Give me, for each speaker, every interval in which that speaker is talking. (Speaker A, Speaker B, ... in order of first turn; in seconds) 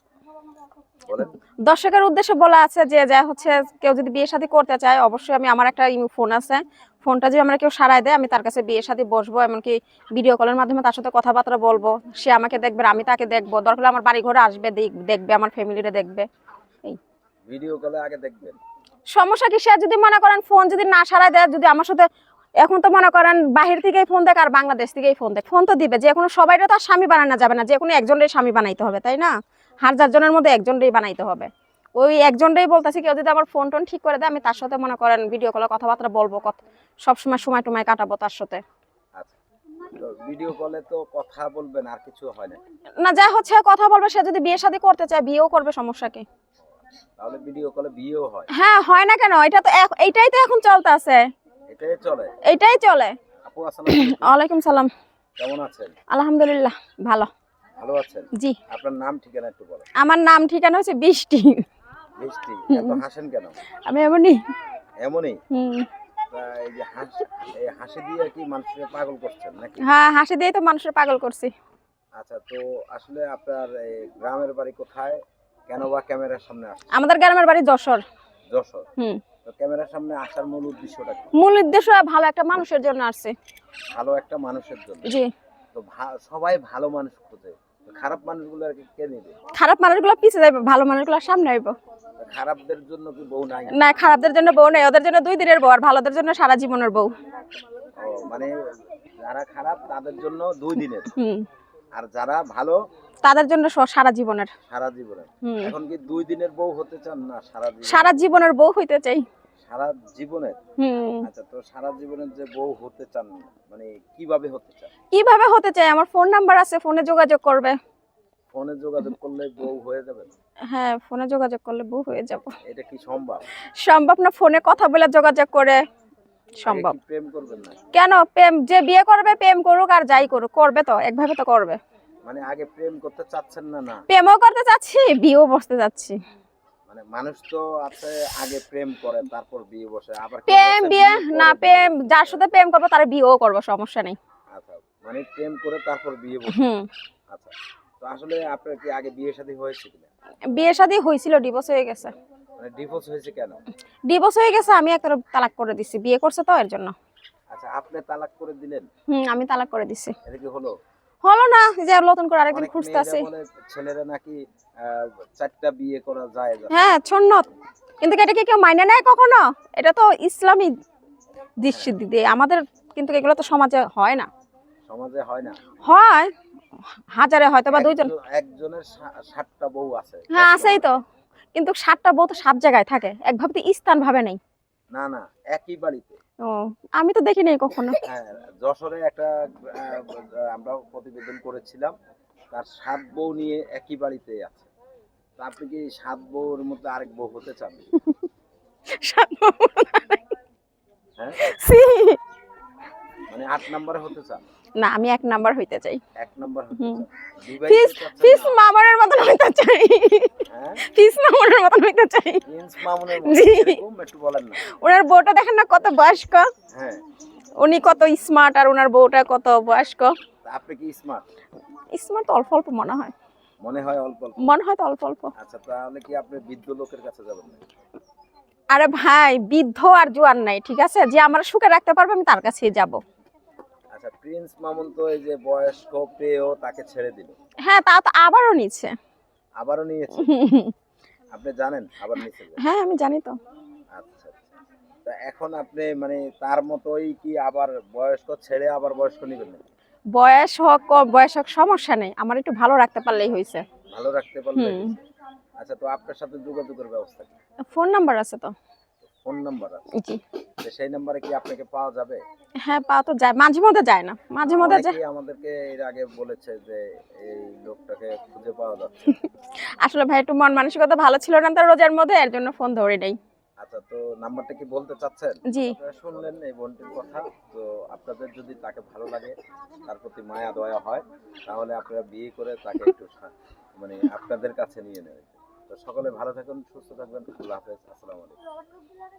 Speaker A: 1.6-16.3, 19.1-22.1, 22.6-38.6, 43.0-46.3, 48.5-51.2, 52.4-53.1, 53.9-54.9, 56.1-57.3, 60.0-61.6, 62.7-63.0, 63.9-64.4, 65.5-65.9, 69.8-71.5, 76.9-78.0, 81.3-83.4, 89.5-91.8, 93.7-97.1, 101.2-101.5, 103.2-104.5, 105.4-105.7, 107.8-109.2, 110.8-111.3, 115.1-117.8, 120.7-122.5, 123.8-125.8, 126.6-127.0, 127.9-131.8, 134.1-136.2, 140.5-144.2, 146.5-146.9, 150.5-152.1, 154.1-156.9, 159.1-160.2, 161.2-163.3, 166.7-167.5, 168.0-170.7, 171.6-174.3, 175.8-176.3, 177.1-178.1, 180.3-181.0, 181.5-184.4, 186.4-188.0, 198.9-200.3, 201.4-202.2, 204.8-206.0, 207.6-212.4, 213.1-213.8, 214.6-216.5, 217.6-220.2, 221.9-223.1, 224.4-225.3, 228.7-233.0, 237.6-238.9, 240.2-240.7, 242.6-243.4, 250.2-253.7, 254.6-254.9, 257.7-258.5, 259.9-260.2, 262.6-265.0, 269.8-273.2, 275.5-275.8
Speaker B: 17.5-18.6, 39.9-42.6, 47.2-48.5, 51.7-52.4, 53.4-54.4, 55.4-56.0, 57.8-59.9, 62.2-63.6, 65.0-65.4, 66.3-69.8, 72.2-76.9, 78.5-78.9, 79.5-81.3, 83.9-85.1, 85.7-89.4, 92.2-93.8, 98.0-101.1, 102.0-102.8, 104.7-108.3, 109.6-110.6, 111.2-114.9, 118.5-120.3, 122.7-123.4, 126.7-127.8, 132.3-134.1, 136.9-142.4, 144.5-146.6, 147.3-150.1, 152.6-153.6, 157.5-158.9, 160.2-160.8, 162.5-167.0, 171.7-171.9, 174.9-175.8, 177.7-180.9, 184.9-186.2, 188.0-191.9, 192.5-194.7, 195.4-197.9, 203.3-204.4, 206.2-208.6, 210.5-210.8, 212.5-214.6, 216.7-217.0, 220.4-221.2, 223.6-224.5, 225.3-227.6, 233.9-237.3, 239.6-240.3, 241.3-242.6, 243.9-244.5, 245.1-249.7, 253.9-255.0, 255.6-257.4, 259.2-259.9, 260.6-262.2, 264.4-269.1, 273.6-288.4